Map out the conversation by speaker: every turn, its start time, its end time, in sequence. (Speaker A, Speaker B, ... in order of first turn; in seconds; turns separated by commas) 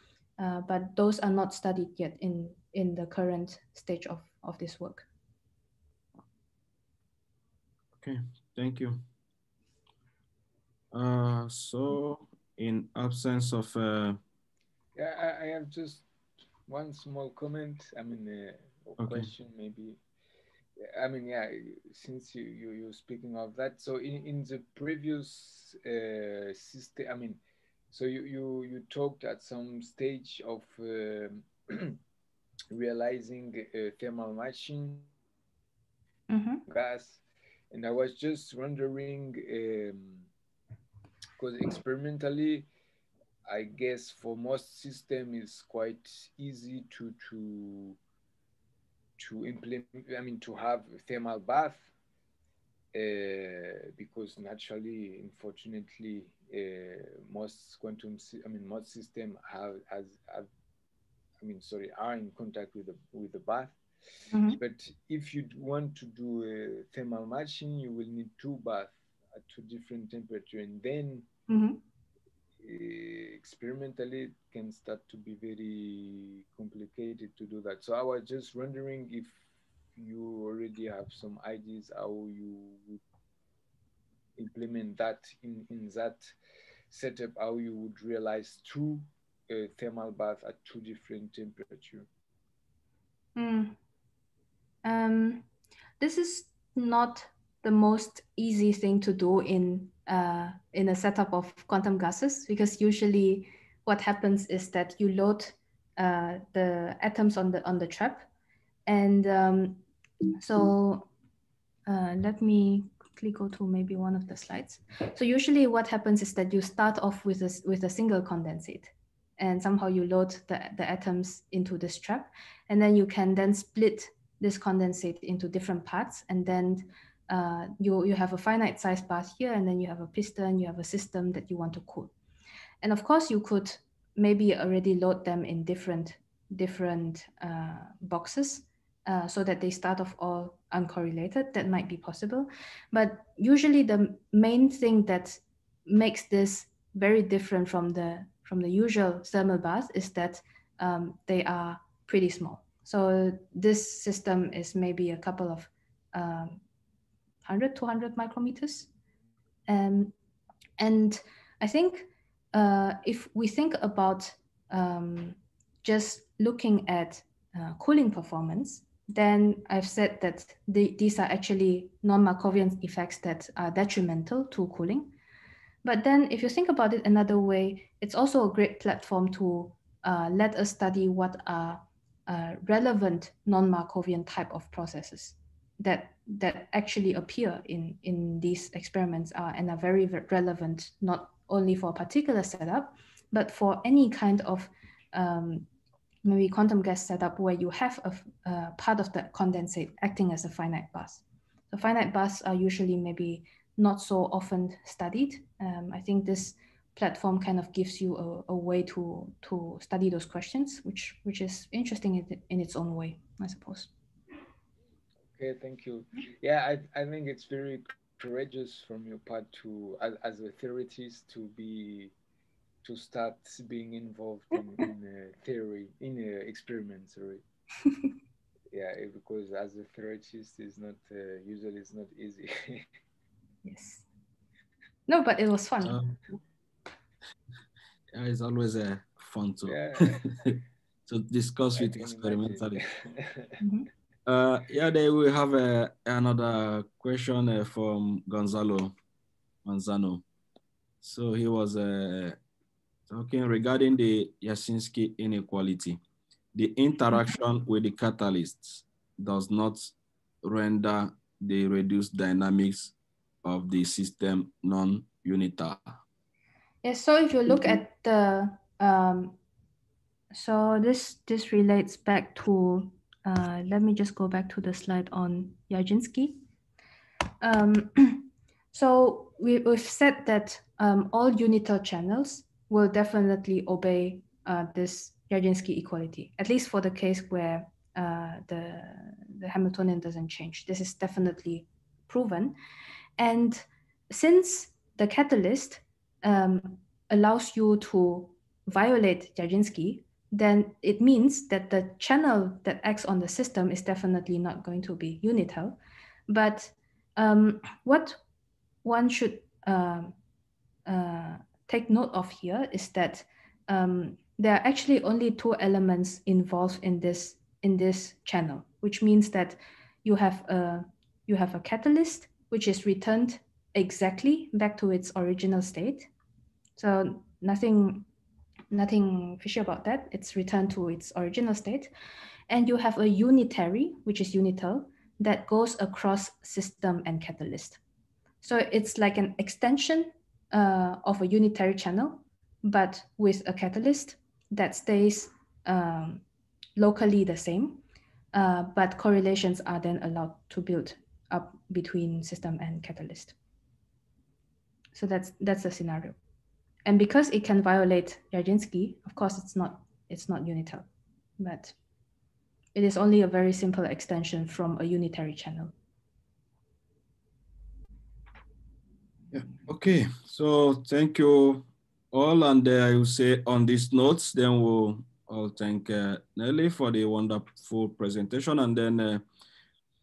Speaker A: 0.4-5.1, Speaker B: 8.0-9.0, Speaker B: 10.9-14.2, Speaker C: 14.9-16.1, Speaker C: 16.7-20.0, Speaker B: 19.0-19.3, Speaker C: 20.8-27.4, Speaker C: 27.9-32.0, Speaker C: 32.7-35.1, Speaker A: 36.3-36.6, Speaker C: 36.7-40.3, Speaker C: 41.4-42.7, Speaker C: 43.5-48.0, Speaker C: 49.2-51.9, Speaker C: 52.9-60.5, Speaker C: 61.4-63.8, Speaker A: 64.3-64.6, Speaker C: 64.5-71.3, Speaker A: 71.5-71.8, Speaker C: 72.6-79.3, Speaker C: 80.0-83.0, Speaker C: 84.4-86.3, Speaker C: 86.9-92.1, Speaker A: 93.4-93.8, Speaker A: 94.8-95.5, Speaker A: 96.0-108.3, Speaker A: 108.9-109.8, Speaker A: 110.4-111.1, Speaker A: 111.9-132.1, Speaker A: 132.8-156.6, Speaker A: 157.5-158.9, Speaker A: 159.7-160.1, Speaker A: 160.8-175.1, Speaker A: 175.8-195.7, Speaker A: 196.2-213.9, Speaker C: 215.4-222.1, Speaker C: 222.8-227.4, Speaker C: 228.7-232.9, Speaker A: 233.6-234.1, Speaker A: 235.1-236.0, Speaker B: 235.8-236.2, Speaker B: 238.1-242.8, Speaker C: 239.7-240.2, Speaker C: 241.8-243.6, Speaker A: 243.6-243.9, Speaker B: 244.3-248.9, Speaker B: 249.7-250.2, Speaker B: 251.0-252.4, Speaker B: 253.1-256.0, Speaker B: 256.5-259.9, Speaker B: 260.4-266.0, Speaker A: 266.8-269.4, Speaker A: 270.3-276.4, Speaker A: 277.4-292.6, Speaker A: 293.2-305.8, Speaker A: 306.3-308.2, Speaker A: 308.8-310.1, Speaker A: 310.9-326.1, Speaker A: 326.8-328.1, Speaker A: 328.7-331.9, Speaker A: 332.5-337.8, Speaker A: 338.4-346.2, Speaker A: 346.8-347.8, Speaker A: 348.3-353.4, Speaker A: 354.9-356.2, Speaker A: 356.9-360.9, Speaker A: 361.4-361.8, Speaker A: 362.8-365.7, Speaker B: 369.3-379.2